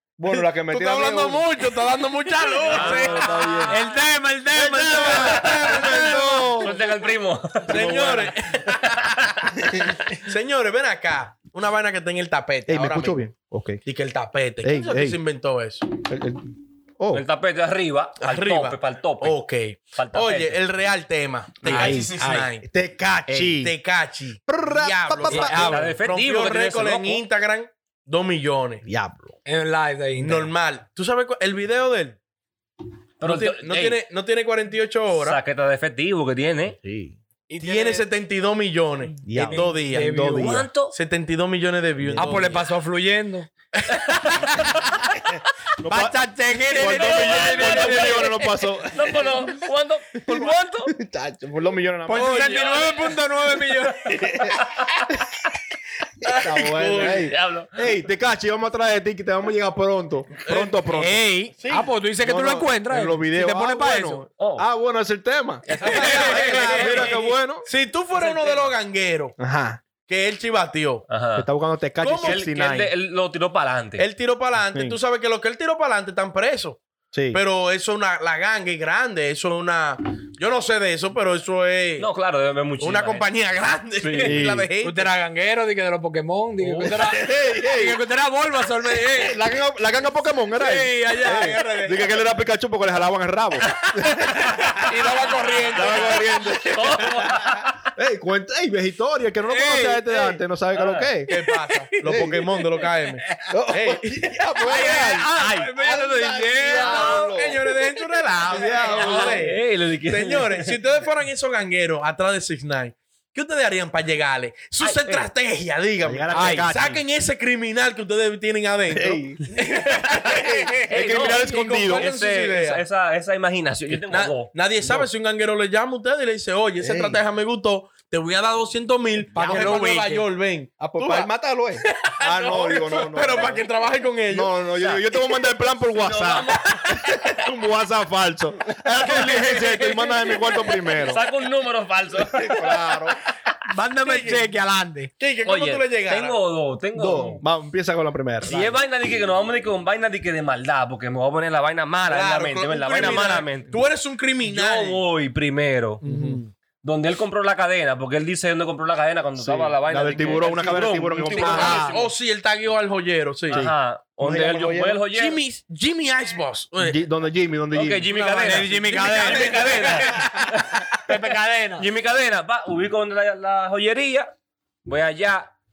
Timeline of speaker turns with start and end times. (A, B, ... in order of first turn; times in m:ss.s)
0:00.2-0:01.4 A
0:00.3-0:03.7 B
0:02.7-0:03.3 C
0:02.7-0:03.8 A
0:03.6-0:06.6 D
0:04.5-0:06.8 A
0:05.1-0:05.7 C
0:06.6-0:07.9 C
0:07.7-0:08.6 A
0:07.7-0:09.2 B
0:09.6-0:10.1 A
0:10.1-0:13.2 B
0:12.7-0:13.8 A
0:13.8-0:15.9 B
0:14.6-0:15.2 A
0:16.0-0:16.5 A
0:17.0-0:17.2 A
0:17.1-0:19.4 C
0:18.2-0:22.7 B
0:19.9-0:20.6 C
0:21.6-0:23.7 A
0:21.7-0:22.5 D
0:23.3-0:28.8 B
0:24.5-0:26.0 A
0:25.3-0:27.2 C
0:28.8-0:29.4 A
0:29.4-0:30.5 D
0:30.2-0:32.2 B
0:33.2-0:34.0 C
0:33.2-0:35.4 B
0:35.1-0:36.8 C
0:36.8-0:37.2 A
0:37.5-0:40.3 B
0:37.6-0:38.1 D
0:39.2-0:40.7 A
0:39.3-0:40.7 D
0:40.4-0:40.9 C
0:40.9-0:42.6 B
0:42.0-0:42.5 A
0:42.2-0:43.5 D
0:43.8-0:44.2 B
0:44.1-0:44.8 D
0:45.8-0:46.2 A
0:45.8-0:48.5 D
0:46.7-0:49.5 A
0:46.8-0:51.0 C
0:50.3-0:52.8 A
0:52.1-0:54.5 D
0:52.1-0:53.0 B
0:54.1-0:54.6 A
0:54.6-0:55.0 C
0:56.2-0:57.3 B
0:56.3-1:01.2 A
0:57.0-0:57.8 C
1:00.4-1:00.8 B
1:00.9-1:04.2 D
1:01.6-1:01.9 B
1:02.2-1:07.7 A
1:04.4-1:04.7 C
1:05.7-1:07.3 C
1:05.8-1:09.4 B
1:06.0-1:07.1 D
1:08.2-1:08.7 C
1:09.4-1:09.8 A
1:10.1-1:11.0 B
1:11.1-1:11.5 C
1:11.4-1:12.9 A
1:12.0-1:12.4 B
1:12.2-1:14.1 C
1:14.0-1:22.1 B
1:14.7-1:15.0 A
1:17.1-1:17.4 A
1:22.0-1:23.3 C
1:22.8-1:25.1 B
1:24.0-1:24.7 A
1:24.8-1:29.4 D
1:26.6-1:27.0 C
1:27.0-1:28.0 A
1:29.0-1:34.7 A
1:30.6-1:32.2 D
1:33.9-1:36.7 D
1:34.9-1:36.2 B
1:35.7-1:37.3 A
1:36.7-1:37.8 C
1:37.9-1:41.3 A
1:39.5-1:40.4 D
1:40.7-1:41.1 C
1:41.3-1:44.2 B
1:41.3-1:43.6 D
1:42.0-1:42.4 A
1:43.5-1:47.6 A
1:44.6-1:49.0 D
1:46.8-2:02.8 B
1:46.8-1:47.2 C
1:48.5-1:49.4 A
1:49.0-1:50.8 C
1:54.8-1:55.3 C
1:56.0-1:57.0 A
1:56.3-1:56.7 D
1:58.9-1:59.4 A
1:59.6-2:00.7 D
2:00.3-2:02.1 A
2:00.9-2:04.5 C
2:04.1-2:11.3 B
2:04.8-2:05.1 A
2:06.8-2:07.2 A
2:09.3-2:10.3 D
2:10.8-2:13.7 A
2:11.8-2:14.5 B
2:14.3-2:21.2 A
2:14.8-2:15.1 C
2:16.0-2:17.1 C
2:19.1-2:19.6 C
2:19.3-2:20.4 D
2:20.9-2:23.0 C
2:22.4-2:23.2 A
2:23.7-2:25.1 D
2:24.0-2:24.5 B
2:25.2-2:26.4 B
2:25.4-2:27.4 C
2:27.0-2:28.8 A
2:28.4-2:33.7 C
2:32.1-2:35.0 B
2:33.0-2:33.2 A
2:34.4-2:36.0 C
2:36.0-2:36.5 B
2:36.0-2:36.4 A
2:36.8-2:42.0 C
2:39.4-2:41.9 A
2:41.4-2:43.7 B
2:41.4-2:42.0 D
2:43.5-2:45.0 A
2:43.5-2:45.4 C
2:45.0-2:47.0 B
2:46.8-2:48.1 A
2:47.7-2:51.1 C
2:48.1-2:50.5 D
2:49.1-2:50.5 B
2:51.1-2:51.9 D
2:51.8-2:54.3 C
2:54.9-2:55.5 C